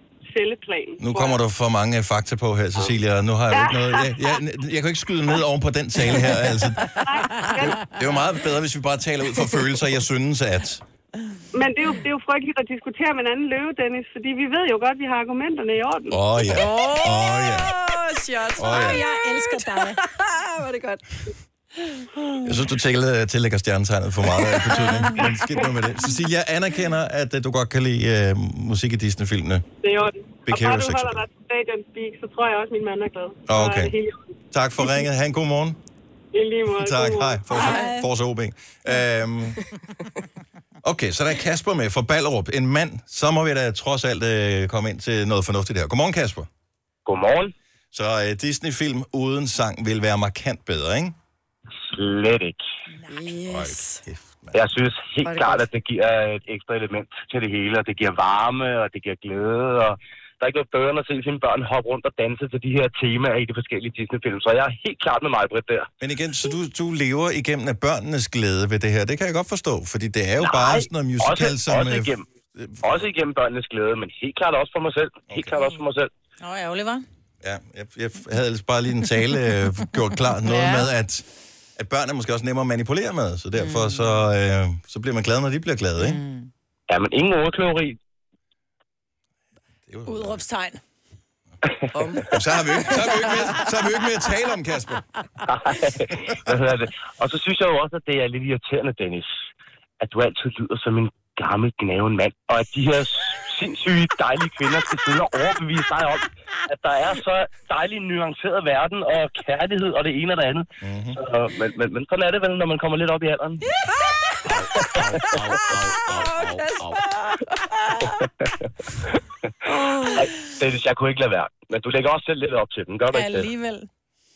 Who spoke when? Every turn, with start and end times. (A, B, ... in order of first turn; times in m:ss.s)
0:00.2-0:01.4 A
0:01.0-0:07.0 B
0:03.5-0:04.4 A
0:06.9-0:07.9 A
0:07.6-0:10.8 B
0:11.5-0:16.5 A
0:16.1-0:17.7 B
0:16.5-0:21.0 C
0:18.6-0:19.0 B
0:18.6-0:20.0 D
0:22.4-0:29.6 B
0:25.2-0:25.9 A
0:29.8-0:34.2 A
0:30.4-0:31.2 B
0:33.5-0:33.9 B
0:34.5-0:35.8 B
0:36.3-0:37.9 A
0:36.7-0:39.6 B
0:37.6-0:38.1 D
0:40.8-0:46.5 B
0:47.0-0:47.5 E
0:47.9-0:51.2 B
0:51.8-0:52.6 E
0:53.0-0:53.2 D
0:53.1-0:54.0 C
0:53.5-0:54.6 B
0:54.5-1:05.9 E
0:55.2-0:55.7 C
1:06.0-1:13.0 B
1:10.4-1:12.3 E
1:12.8-1:16.1 E
1:16.4-1:17.0 D
1:17.4-1:26.2 B
1:20.4-1:20.9 C
1:23.6-1:24.2 D
1:26.0-1:26.5 D
1:26.9-1:28.0 E
1:29.9-1:30.4 B
1:30.0-1:30.8 D
1:31.9-1:32.4 C
1:32.2-1:35.0 B
1:32.9-1:33.5 C
1:35.5-1:39.3 E
1:40.0-1:53.6 E
1:50.8-1:51.2 B
1:54.5-1:57.0 B
1:54.7-1:55.4 E
1:56.0-1:58.0 D
1:58.4-1:59.0 E
1:59.7-2:00.1 D
2:00.1-2:03.5 E
2:03.1-2:03.9 D